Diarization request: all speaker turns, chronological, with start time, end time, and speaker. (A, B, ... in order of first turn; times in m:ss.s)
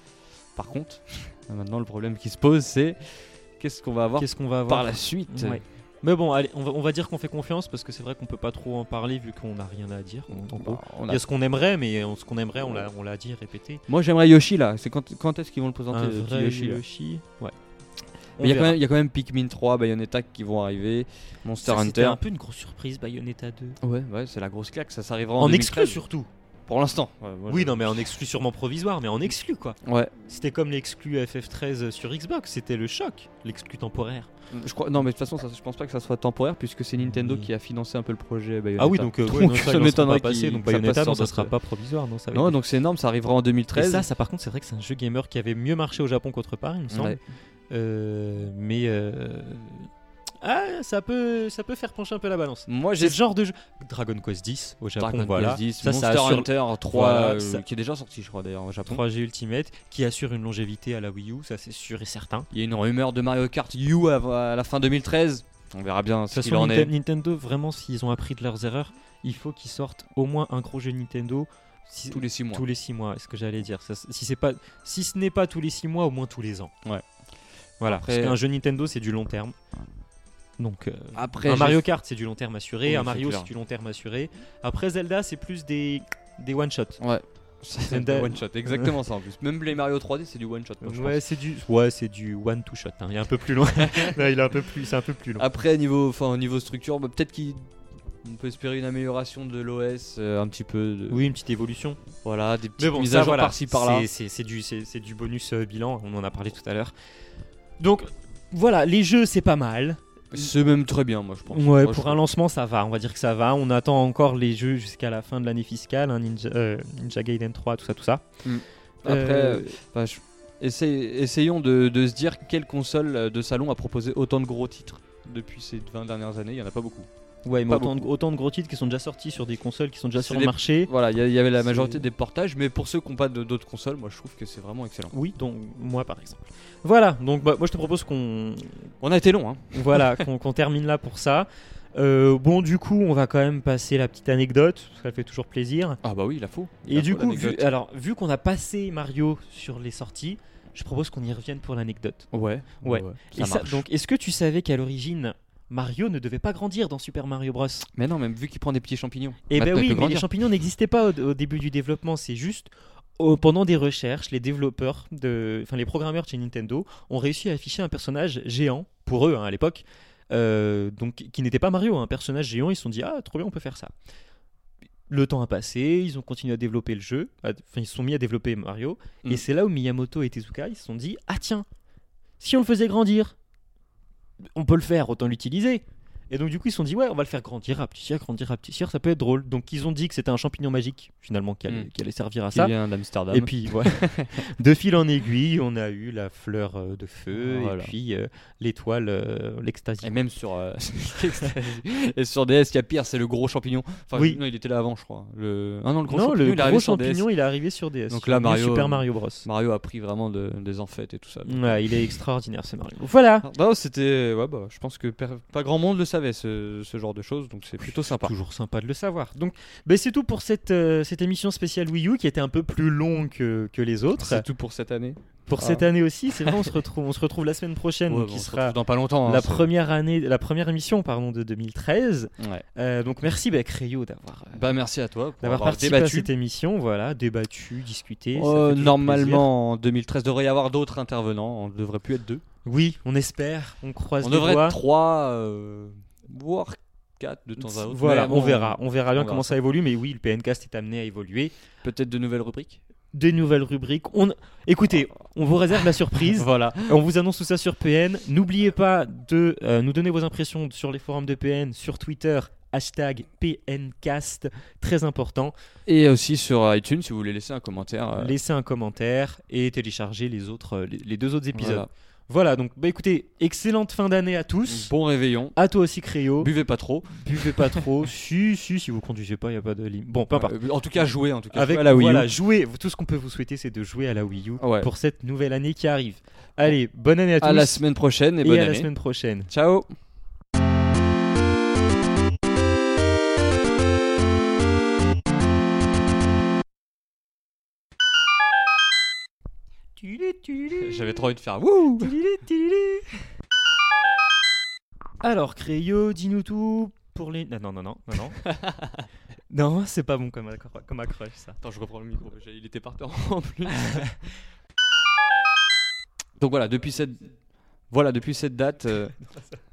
0:00.5-0:05.6 A
0:04.2-0:13.8 B
0:10.4-0:11.2 A
0:13.9-0:16.8 A
0:15.9-0:17.5 B
0:18.4-0:18.8 B
0:18.4-0:22.2 A
0:21.6-0:23.8 B
0:23.8-0:26.0 A
0:25.4-0:26.3 B
0:26.7-0:28.0 A
0:27.5-0:34.3 B
0:29.8-0:30.1 A
0:34.5-0:41.5 A
0:37.0-0:37.5 B
0:38.8-0:42.6 B
0:42.3-0:44.0 A
0:43.7-0:47.2 B
0:46.9-0:47.2 A
0:47.7-0:49.9 B
0:50.4-0:57.6 B
0:52.7-0:53.2 A
0:55.0-0:59.0 A
0:58.9-1:02.5 B
1:02.5-1:06.9 A
1:06.3-1:16.7 B
1:12.1-1:12.6 A
1:17.8-1:19.6 B
1:17.8-1:18.4 A
1:20.6-1:27.0 B
1:21.1-1:21.9 A
1:22.8-1:23.5 A
1:27.0-1:31.2 A
1:27.8-1:29.0 B
1:30.8-1:35.4 B
1:33.8-1:34.1 A
1:35.4-1:37.6 A
1:38.2-1:41.2 A
1:41.1-1:42.0 B
1:42.2-1:44.1 A
1:42.8-1:46.9 B
1:47.8-1:50.0 B
1:50.3-1:52.2 A
1:51.5-1:58.2 B
1:58.4-2:07.1 A
1:59.0-1:59.8 B
2:07.4-2:10.9 B
2:07.7-2:08.0 A
2:10.2-2:15.1 A
2:11.6-2:12.0 B
2:15.1-2:18.9 B
2:19.0-2:20.2 A
2:19.7-2:26.0 B
2:26.0-2:27.7 A
2:26.9-2:32.3 B
2:32.3-2:33.8 A
2:32.8-2:37.9 B
2:37.9-2:40.3 A
2:39.5-2:53.9 B
2:55.1-3:01.6 B
3:02.4-3:03.3 B
3:04.5-3:12.7 B
3:12.5-3:14.4 A
3:13.3-3:20.2 B
3:17.4-3:17.9 A
3:20.0-3:27.3 A
3:24.1-3:24.4 B
3:26.1-3:29.4 B
3:28.1-3:32.1 A
3:31.4-3:33.5 B
3:33.4-3:38.3 A
3:37.8-3:44.4 B
3:44.1-3:45.9 A
3:45.5-3:54.8 B
3:46.4-3:46.7 A
3:48.1-3:49.7 A
3:52.4-3:52.6 A
3:54.5-3:56.3 A
3:55.4-3:59.5 B
3:58.3-4:02.4 A
4:02.6-4:04.8 B
4:04.2-4:09.6 A
4:07.6-4:11.5 B
4:11.8-4:12.8 A
4:13.1-4:25.5 B
4:16.3-4:17.0 A
4:25.8-4:28.3 A
4:28.2-4:34.9 B
4:31.5-4:31.9 A
4:34.6-4:35.6 A
4:35.6-4:36.5 B
4:36.4-4:37.9 A
4:37.1-4:47.8 B
4:40.3-4:42.3 A
4:44.6-4:44.9 A
4:47.4-4:48.9 A
4:48.4-4:49.5 B
4:49.5-4:49.9 A
5:00.0-5:01.2 B
5:00.8-5:02.1 A
5:01.8-5:03.1 B
5:05.2-5:08.4 B
5:08.4-5:09.0 A
5:09.5-5:11.6 B
5:11.6-5:14.3 A
5:13.8-5:14.1 B
5:16.4-5:17.3 A
5:17.9-5:19.2 A